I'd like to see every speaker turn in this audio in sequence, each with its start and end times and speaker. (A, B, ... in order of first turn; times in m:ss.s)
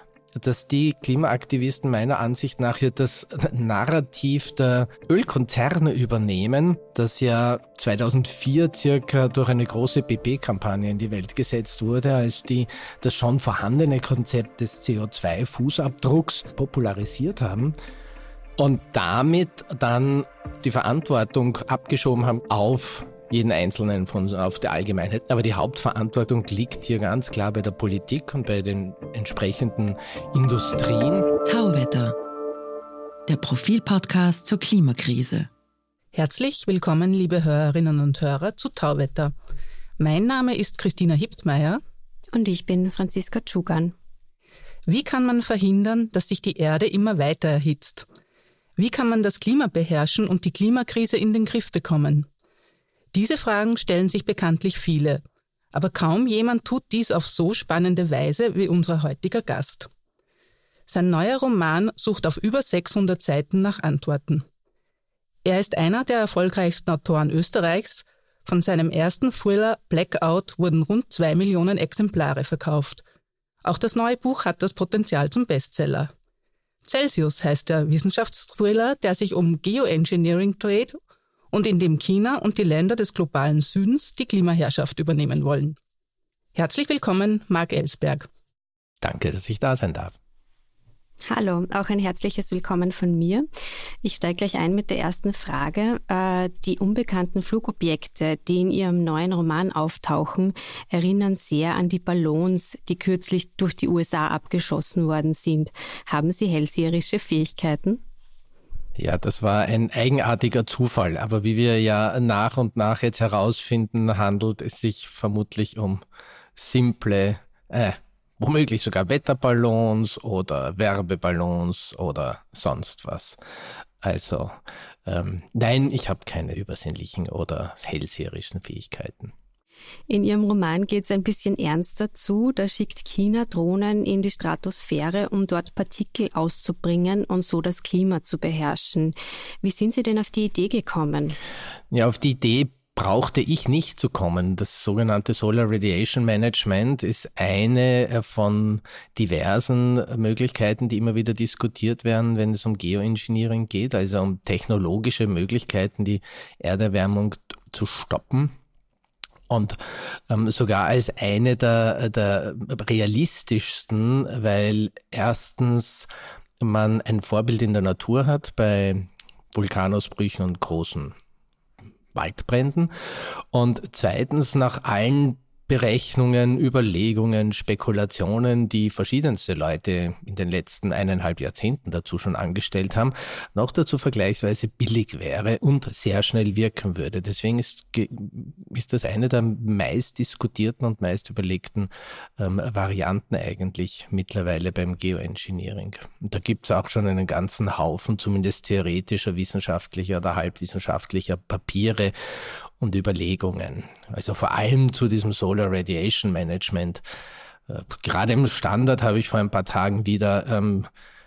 0:00.3-0:17.8 A
0:18.6-0:31.3 A
0:31.4-0:32.2 B
0:33.3-0:35.5 B
0:36.1-0:39.3 C
0:40.0-0:41.8 C
0:42.3-0:43.9 D
0:44.9-0:48.0 C
0:48.8-0:52.3 C
0:53.1-0:55.2 C
0:55.7-0:59.9 C
1:00.9-1:04.4 C
1:05.4-1:13.0 C
1:13.6-1:16.1 C
1:16.8-1:21.0 C
1:21.5-1:25.8 C
1:26.5-1:28.3 C
1:29.0-1:30.2 A
1:31.3-1:33.5 D
1:34.0-1:48.0 D
1:49.0-1:56.0 A
1:56.6-2:03.4 A
2:04.0-2:09.3 A
2:10.1-2:21.4 D
2:21.9-2:38.5 A
2:39.5-2:46.1 A
2:46.6-2:51.1 A
2:52.1-3:27.0 A
3:27.7-3:30.9 A